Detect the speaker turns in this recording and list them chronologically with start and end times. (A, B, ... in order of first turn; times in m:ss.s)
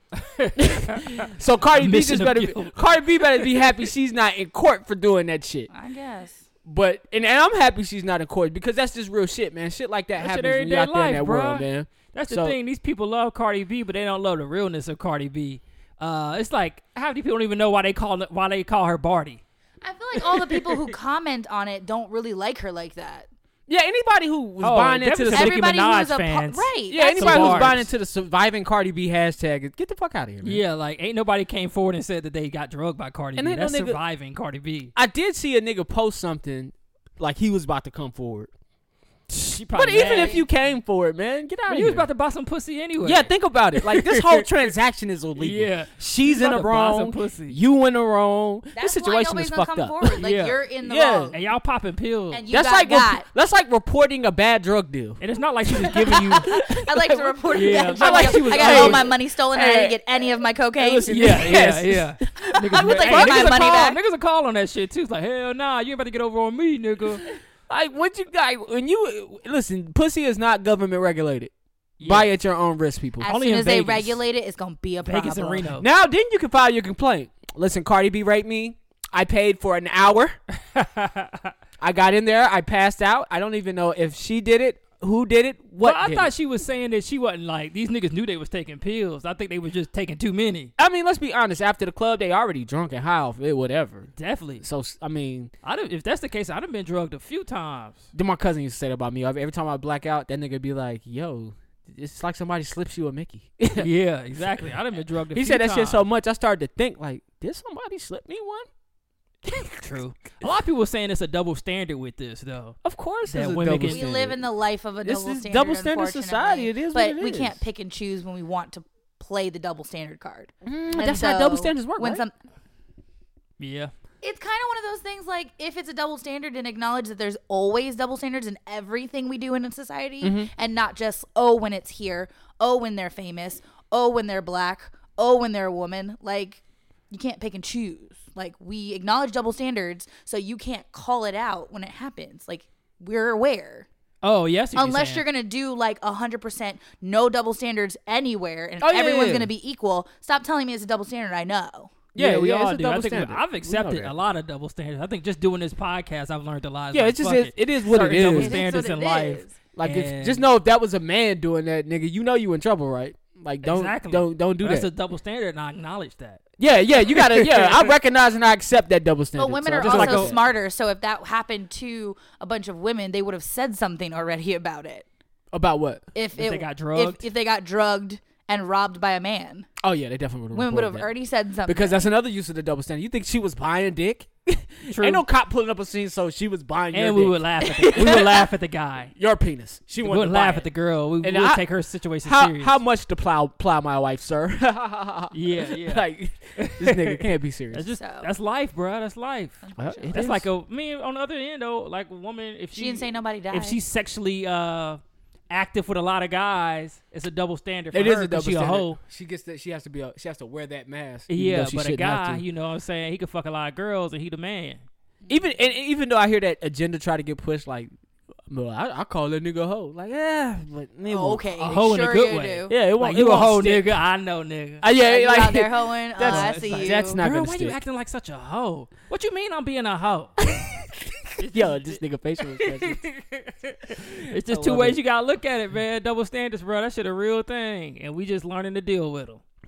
0:00.2-0:03.7 A
0:00.6-0:05.7 B
0:05.7-0:06.4 C
0:06.6-0:12.6 B
0:10.2-0:19.4 A
0:19.8-0:23.3 C
0:20.2-0:20.9 A
0:23.7-0:25.6 B
0:24.6-0:27.9 A
0:25.3-0:27.8 C
0:26.9-0:30.6 B
0:30.4-0:34.9 A
0:33.4-0:34.0 B
0:34.9-0:38.5 B
0:39.3-0:40.4 A
0:39.7-0:42.1 B
0:41.7-0:44.7 A
0:43.0-0:50.2 B
0:45.4-0:47.6 A
0:48.7-0:51.4 C
0:50.2-0:50.6 A
0:50.8-0:51.3 B
0:51.3-0:52.4 A
0:52.3-0:53.3 C
0:52.5-0:55.2 B
0:55.2-0:56.6 A
0:55.7-1:00.0 B
0:56.3-1:01.4 C
0:57.5-0:59.1 A
1:00.8-1:03.7 B
1:01.1-1:07.2 A
1:02.7-1:04.0 C
1:07.7-1:13.3 B
1:12.0-1:12.3 A
1:13.2-1:15.7 C
1:13.2-1:14.2 A
1:15.0-1:15.8 A
1:15.8-1:20.4 B
1:20.7-1:21.5 A
1:21.8-1:26.3 B
1:25.8-1:30.7 A
1:30.8-1:35.5 B
1:34.2-1:34.6 A
1:35.6-1:38.1 A
1:38.1-1:43.9 B
1:43.8-1:46.0 A
1:45.3-1:48.7 B
1:49.4-1:49.8 B
1:49.7-1:54.0 A
1:52.8-1:54.4 B
1:53.9-2:02.3 C
1:55.0-1:57.6 B
2:00.6-2:02.2 B
2:03.6-2:03.9 A
2:04.2-2:23.9 C
2:10.2-2:10.5 B
2:24.2-2:25.2 A
2:24.7-2:31.9 C
2:28.8-2:29.5 B
2:32.1-2:34.1 B
2:32.1-2:40.4 A
2:36.9-2:38.6 B
2:38.0-2:39.6 C
2:39.8-2:44.9 B
2:43.6-2:46.4 A
2:46.6-2:50.4 B
2:47.1-2:47.9 A
2:49.4-2:55.0 C
2:49.8-2:50.4 A
2:55.5-2:56.0 B
2:56.1-2:59.7 C
2:56.3-2:57.2 A
2:59.8-3:01.1 B
3:00.5-3:02.1 C
3:01.6-3:08.5 B
3:04.9-3:05.2 A
3:06.9-3:09.1 A
3:09.1-3:10.7 B
3:10.0-3:12.8 A
3:11.2-3:11.6 B
3:12.2-3:17.8 B
3:15.3-3:19.6 A
3:18.0-3:18.3 C
3:19.6-3:20.2 C
3:19.8-3:20.5 B
3:20.1-3:29.0 A
3:22.7-3:23.8 C
3:27.9-3:32.4 B
3:31.3-3:34.8 A
3:35.3-3:37.9 B
3:38.5-3:41.8 B
3:41.1-3:42.7 C
3:41.6-3:44.8 A
3:42.7-3:44.0 B
3:44.8-3:47.8 B
3:45.0-3:47.2 C
3:46.2-3:50.4 A
3:50.5-3:50.8 B
3:51.4-3:59.4 A
3:51.4-3:53.0 B
3:54.0-3:55.0 B